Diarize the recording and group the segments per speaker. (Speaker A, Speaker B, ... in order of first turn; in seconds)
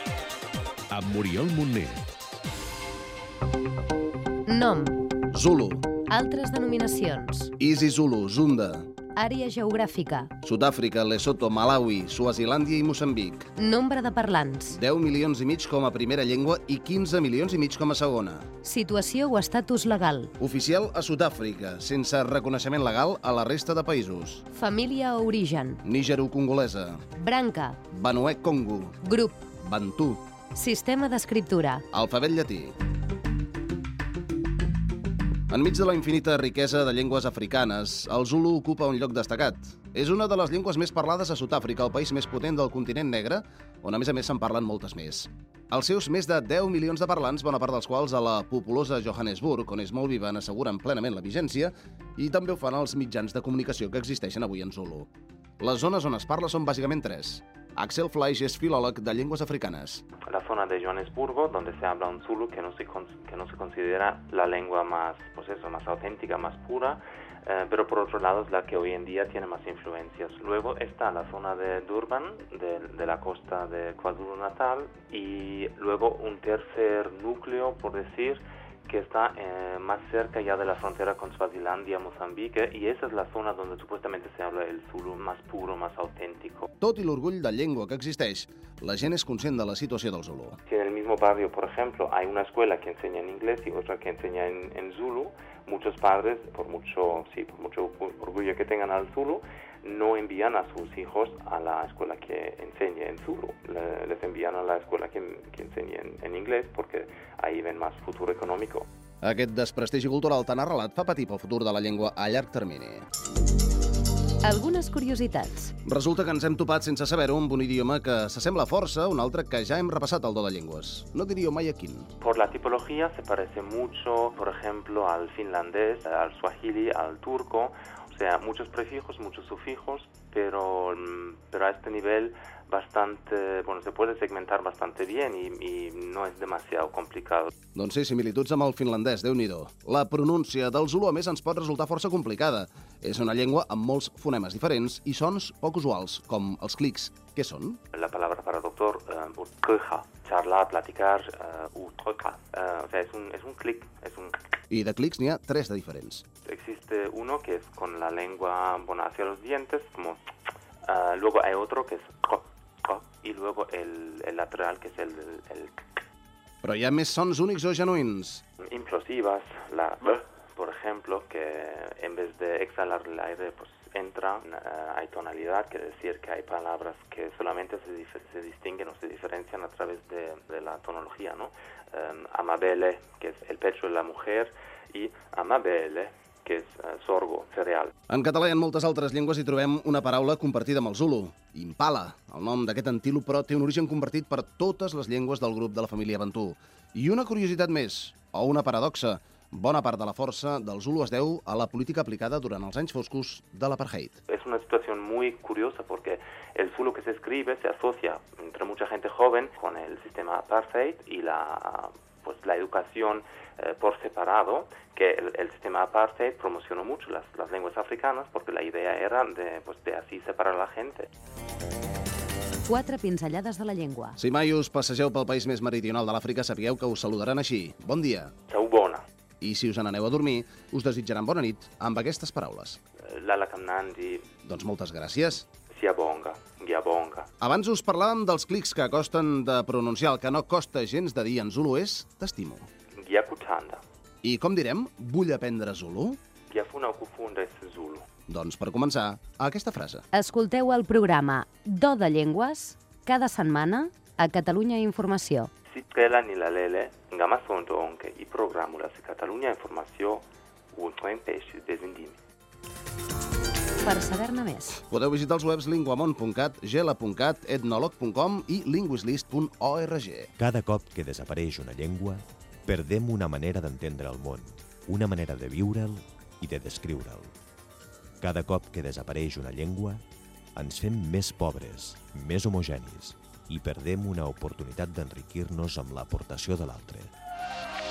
Speaker A: 0.9-2.0, 270.7-271.9, 272.8-274.3, 275.0-275.7, 276.5-277.0, 278.3-279.7, 280.8-281.6, 282.4-282.8, 284.4-286.8
Speaker B: 4.5-5.1, 6.1-7.5, 9.2-10.3, 13.6-14.8, 18.6-20.3, 24.5-25.8, 27.2-27.8, 29.0-29.5, 30.5-31.8, 114.4-115.7, 222.7-224.2, 250.1-255.5, 263.8-264.8
Speaker C: 5.3-5.9, 7.6-8.9, 10.4-13.5, 14.7-18.5, 20.4-24.4, 25.8-27.0, 27.9-29.0, 29.6-30.2, 31.9-32.8, 35.5-55.1, 55.6-60.0, 86.8-90.6, 109.2-113.1, 115.8-122.1, 137.8-147.8, 154.7-156.2, 166.6-168.4, 188.1-204.2, 224.2-228.3, 229.4-232.8, 234.4-235.5, 237.4-242.7, 244.2-246.2, 248.3-250.0, 264.9-270.3
Speaker D: 60.3-86.7, 90.7-108.9, 122.2-137.5, 147.9-154.4, 156.4-160.2, 160.9-165.8, 168.7-187.9, 204.3-221.1, 228.5-229.1, 233.1-234.3, 235.7-237.3, 243.0-243.8, 246.5-248.1, 255.7-262.2
Speaker E: 270.4-277.2, 278.2-280.0, 280.6-287.0